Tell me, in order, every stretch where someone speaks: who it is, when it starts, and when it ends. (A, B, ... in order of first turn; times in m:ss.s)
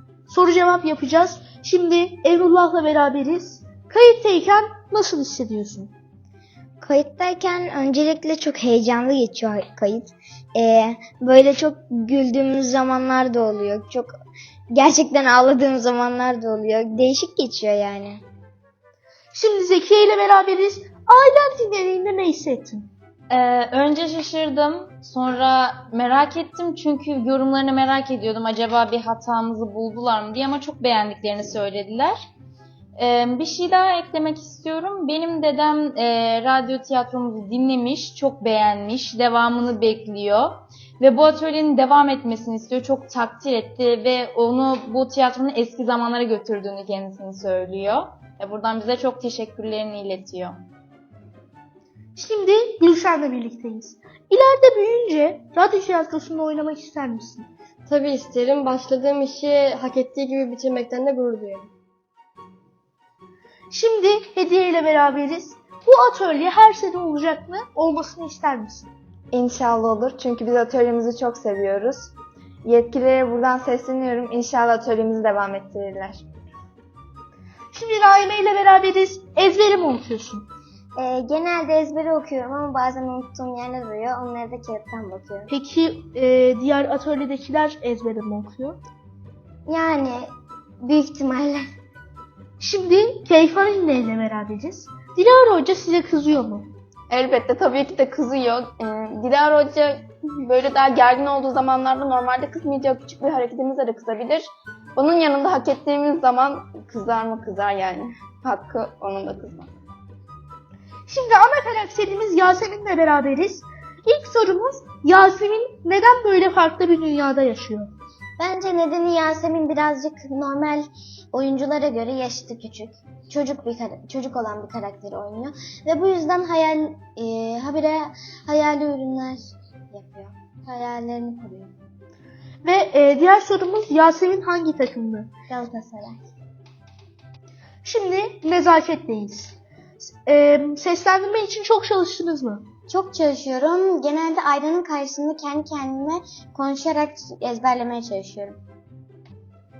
0:00.3-0:05.9 A
0:07.9-0:08.5 B
0:09.3-0:10.0 B
0:14.7-0:15.5 B
0:17.0-0:18.1 B
0:19.3-0:22.9 A
0:23.3-0:32.2 C
0:33.0-0:50.6 C
0:52.1-0:57.5 A
0:57.9-1:01.7 D
1:03.7-1:08.9 A
1:09.3-1:12.1 E
1:12.6-1:16.2 E
1:17.7-1:20.5 A
1:21.0-1:25.5 B
1:25.5-1:28.8 A
1:29.7-1:30.3 B
1:30.8-1:31.6 B
1:32.6-1:36.7 A
1:37.1-1:49.7 E
1:51.1-1:57.9 A
1:58.4-2:11.7 B
2:12.6-2:15.3 A
2:15.5-2:16.2 B
2:17.8-2:22.6 A
2:22.9-2:28.6 B